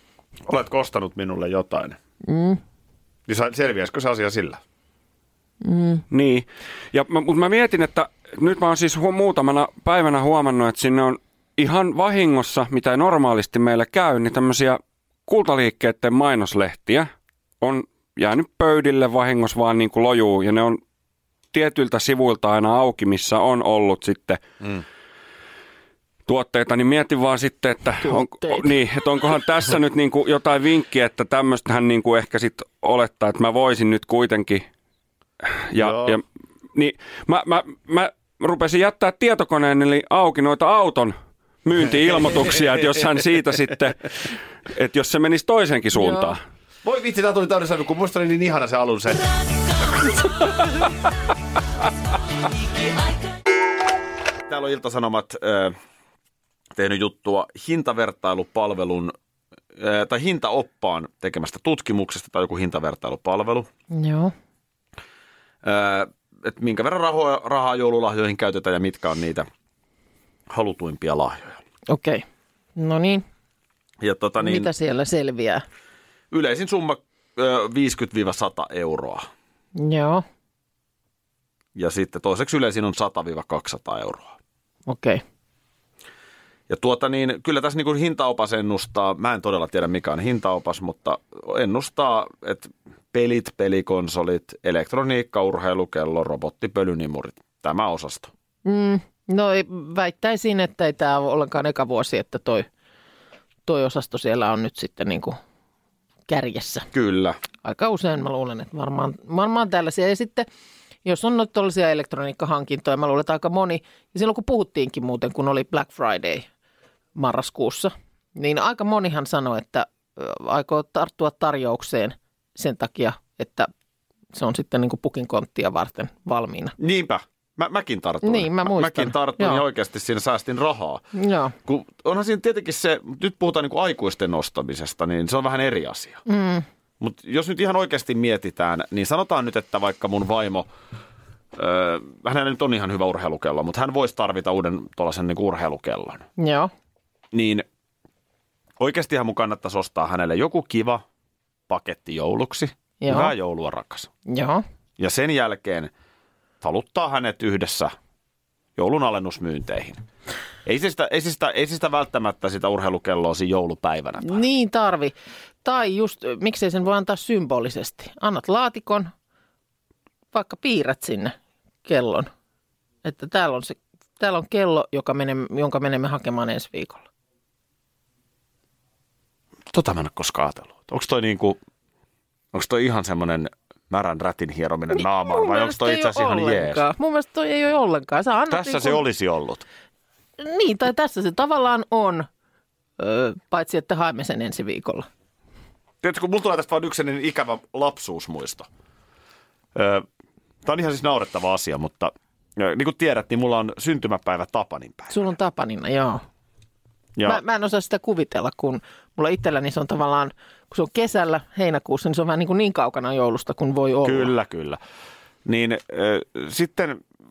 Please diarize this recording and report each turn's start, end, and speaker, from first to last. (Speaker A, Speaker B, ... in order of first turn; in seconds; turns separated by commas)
Speaker A: 0.5-2.0, Speaker B: 2.2-2.6, Speaker A: 3.3-4.6, Speaker B: 5.6-6.0, Speaker C: 6.1-17.1, Speaker C: 17.6-20.8, Speaker C: 21.5-24.4, Speaker C: 26.3-34.6, Speaker B: 28.0-28.7, Speaker C: 35.7-36.2, Speaker A: 35.8-36.2, Speaker C: 36.7-46.4, Speaker B: 46.0-46.3, Speaker A: 46.8-49.4, Speaker A: 54.5-55.8, Speaker A: 56.7-59.1, Speaker A: 59.8-63.7, Speaker B: 63.9-64.3, Speaker A: 65.6-69.5, Speaker A: 70.5-71.6, Speaker B: 71.9-72.2, Speaker B: 72.8-73.2, Speaker A: 74.0-74.7, Speaker B: 74.4-75.6, Speaker A: 76.3-79.3, Speaker B: 79.8-80.2, Speaker A: 81.7-84.3, Speaker B: 84.9-85.2, Speaker A: 86.7-98.3, Speaker B: 98.6-102.7, Speaker B: 103.7-105.4, Speaker B: 106.3-106.9, Speaker A: 106.9-107.4, Speaker B: 107.6-110.5, Speaker B: 111.0-116.5, Speaker B: 117.2-123.7, Speaker B: 124.3-126.8, Speaker A: 126.8-131.0, Speaker B: 128.2-129.6, Speaker B: 131.1-131.5, Speaker A: 131.6-136.2, Speaker B: 136.2-136.7, Speaker A: 137.0-140.7, Speaker A: 141.5-146.3, Speaker B: 146.4-146.7, Speaker A: 147.3-147.6, Speaker A: 148.8-151.0, Speaker A: 151.7-154.1, Speaker B: 153.0-153.3, Speaker B: 154.3-154.6, Speaker A: 155.0-155.9, Speaker A: 156.6-157.9, Speaker A: 158.8-160.0, Speaker A: 160.6-164.4, Speaker B: 164.2-169.1, Speaker B: 170.3-172.3, Speaker B: 173.0-177.0, Speaker A: 179.7-181.6, Speaker A: 182.5-186.8, Speaker B: 184.9-189.0, Speaker A: 188.5-189.6, Speaker B: 190.4-192.3, Speaker B: 193.0-195.1, Speaker A: 196.0-198.7, Speaker A: 199.7-200.0, Speaker A: 200.6-205.2, Speaker B: 205.1-206.2, Speaker B: 207.2-214.3, Speaker A: 214.0-214.8, Speaker A: 215.4-217.0